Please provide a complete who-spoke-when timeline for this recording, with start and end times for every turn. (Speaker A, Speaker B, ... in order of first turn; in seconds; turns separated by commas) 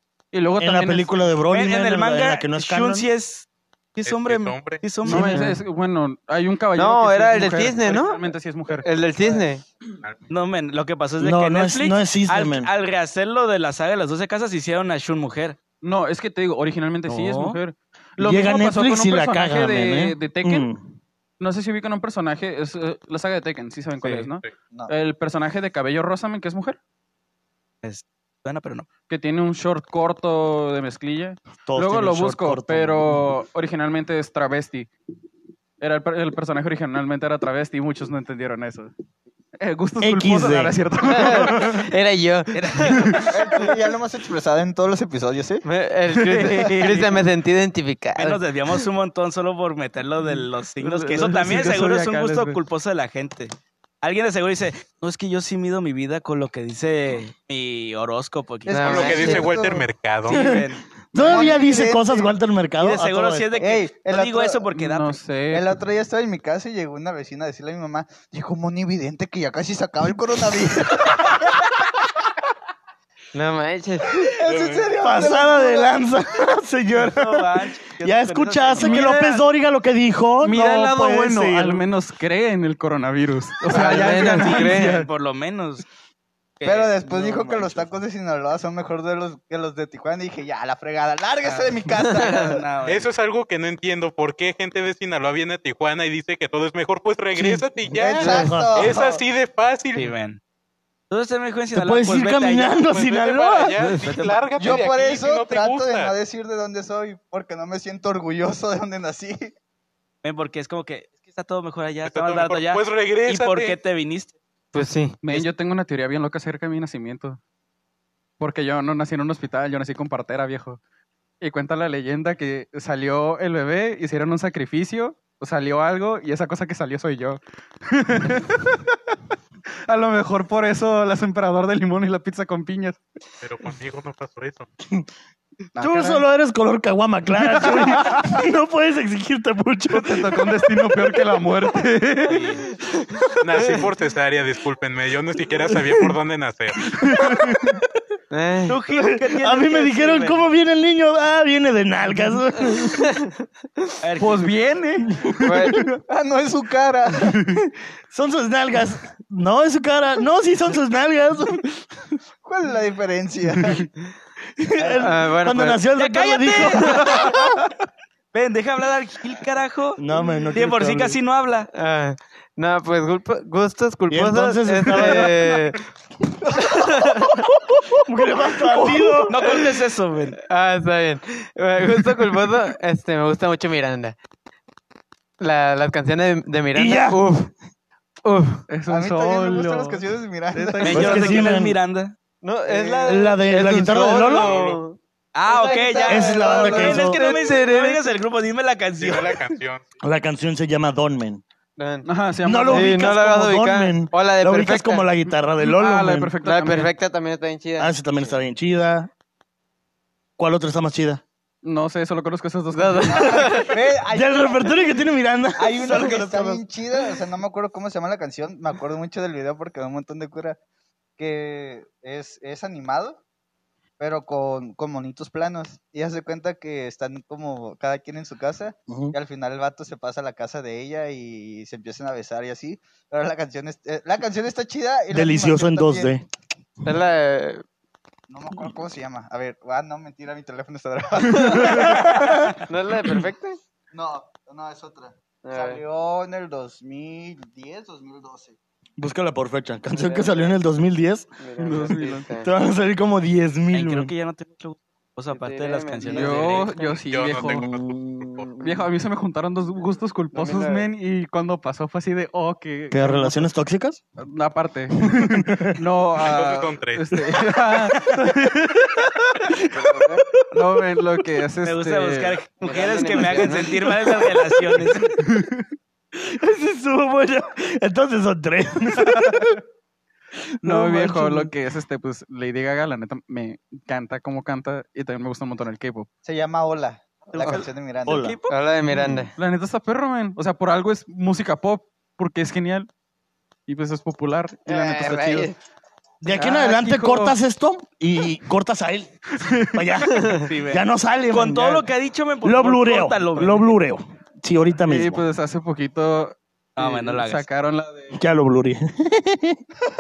Speaker A: 0.3-1.1, Speaker B: 0.6-3.1, Speaker C: 1.5-5.4, Speaker D: 4.1-4.8, Speaker A: 5.0-8.9, Speaker E: 5.1-5.6, Speaker E: 6.8-9.6, Speaker D: 10.0-10.3, Speaker C: 10.3-15.6, Speaker B: 11.2-12.7, Speaker A: 15.8-20.7, Speaker C: 17.1-17.6, Speaker B: 18.2-20.9, Speaker A: 21.4-26.8, Speaker C: 27.8-28.9, Speaker A: 29.1-34.9, Speaker B: 31.7-33.3, Speaker A: 35.8-38.9, Speaker A: 39.6-41.9, Speaker B: 40.0-40.8, Speaker E: 41.0-43.2, Speaker C: 42.5-43.3, Speaker A: 42.9-43.3, Speaker F: 43.3-45.6, Speaker E: 45.6-48.4, Speaker A: 46.1-47.1, Speaker C: 48.2-59.5, Speaker A: 50.2-52.6, Speaker F: 58.7-59.9, Speaker E: 58.7-59.5, Speaker D: 58.8-60.5, Speaker C: 60.2-60.8, Speaker B: 60.3-60.6, Speaker B: 61.1-63.5, Speaker F: 61.2-62.4, Speaker C: 62.8-65.2, Speaker F: 63.6-64.6, Speaker A: 64.8-65.8, Speaker F: 65.5-71.6, Speaker E: 73.3-74.2, Speaker F: 74.1-76.0, Speaker D: 74.4-74.9, Speaker B: 75.0-81.8, Speaker C: 76.9-79.1, Speaker A: 78.8-79.4, Speaker A: 80.4-85.1, Speaker E: 83.7-85.0, Speaker C: 83.7-85.8, Speaker C: 86.6-87.9, Speaker F: 86.6-92.6, Speaker C: 91.4-93.1, Speaker E: 92.2-92.5, Speaker D: 92.9-100.1, Speaker B: 97.4-98.9, Speaker F: 97.9-99.2, Speaker C: 100.0-100.4, Speaker C: 101.1-102.8, Speaker B: 101.7-103.8, Speaker D: 102.8-106.1, Speaker C: 104.0-104.4, Speaker F: 104.6-109.5, Speaker C: 110.2-114.4, Speaker D: 112.0-113.8, Speaker E: 114.7-115.2, Speaker A: 115.2-117.4, Speaker A: 118.4-120.8, Speaker A: 121.4-129.0, Speaker A: 129.9-133.0, Speaker D: 133.4-134.7, Speaker B: 135.8-140.9, Speaker A: 137.3-138.4, Speaker A: 139.9-142.5, Speaker D: 143.4-146.9, Speaker B: 145.7-146.1, Speaker B: 146.9-147.8, Speaker E: 148.3-148.8, Speaker C: 148.7-150.4, Speaker B: 149.2-153.2, Speaker C: 154.0-154.6, Speaker A: 154.2-156.0, Speaker E: 155.4-155.9, Speaker F: 156.1-157.4, Speaker B: 158.1-162.0, Speaker F: 162.4-163.9, Speaker B: 164.6-167.5, Speaker E: 165.0-165.8, Speaker C: 165.9-167.3, Speaker C: 168.3-170.0, Speaker B: 170.0-171.2, Speaker C: 170.5-171.7, Speaker E: 171.7-175.8, Speaker B: 174.1-175.6, Speaker B: 176.6-177.2, Speaker E: 176.6-177.3, Speaker B: 177.9-179.4, Speaker C: 179.3-180.4, Speaker E: 180.5-184.2, Speaker E: 185.4-187.5, Speaker B: 186.8-187.2, Speaker E: 188.2-188.7, Speaker A: 188.7-191.4, Speaker F: 188.9-191.3, Speaker C: 190.8-192.2, Speaker B: 190.9-191.8, Speaker E: 192.4-195.0, Speaker F: 192.7-193.3, Speaker B: 193.1-194.6, Speaker D: 194.3-194.8, Speaker C: 195.3-199.4, Speaker F: 195.5-197.1, Speaker E: 195.6-198.1, Speaker B: 196.1-197.2, Speaker D: 199.0-199.9, Speaker B: 200.0-201.4, Speaker E: 201.8-202.1, Speaker A: 202.0-203.2, Speaker B: 202.4-206.3, Speaker E: 202.7-205.1, Speaker A: 205.6-206.9, Speaker E: 206.4-207.9, Speaker B: 207.8-209.1, Speaker B: 210.4-211.2, Speaker A: 211.6-213.7, Speaker E: 212.7-213.8, Speaker F: 213.1-214.9, Speaker B: 214.1-216.4, Speaker F: 215.6-220.6, Speaker F: 221.2-223.2, Speaker F: 224.0-236.1, Speaker B: 228.9-229.2, Speaker B: 235.1-236.3, Speaker E: 236.8-237.6, Speaker F: 238.3-242.5, Speaker B: 241.5-242.5, Speaker E: 241.5-241.9, Speaker E: 242.6-243.6, Speaker F: 243.9-248.6, Speaker E: 245.4-245.8, Speaker B: 249.0-251.3, Speaker E: 249.9-250.6, Speaker E: 251.4-252.5, Speaker A: 251.6-252.3, Speaker B: 252.4-254.1, Speaker C: 253.7-256.7, Speaker E: 255.3-257.0, Speaker A: 256.1-257.7, Speaker D: 257.1-258.5, Speaker B: 257.4-258.9, Speaker A: 258.6-263.5, Speaker E: 260.3-260.9, Speaker B: 262.9-264.0, Speaker A: 264.2-269.6, Speaker B: 265.1-265.8, Speaker D: 266.2-267.2, Speaker E: 269.7-270.2, Speaker A: 270.5-272.4, Speaker C: 271.6-275.2, Speaker E: 272.6-274.0, Speaker B: 273.9-274.4, Speaker A: 275.2-275.6, Speaker B: 276.1-279.6, Speaker B: 280.6-281.5, Speaker A: 280.6-286.1, Speaker F: 286.2-288.4, Speaker C: 287.3-288.6, Speaker B: 288.1-288.4, Speaker E: 288.5-289.3, Speaker A: 289.4-292.9, Speaker A: 293.7-295.5, Speaker E: 294.7-295.6, Speaker B: 296.2-301.9, Speaker A: 296.3-297.4, Speaker A: 299.4-300.2, Speaker C: 300.3-303.7, Speaker B: 302.4-305.2, Speaker A: 304.8-308.2, Speaker C: 306.8-307.4, Speaker B: 308.1-309.6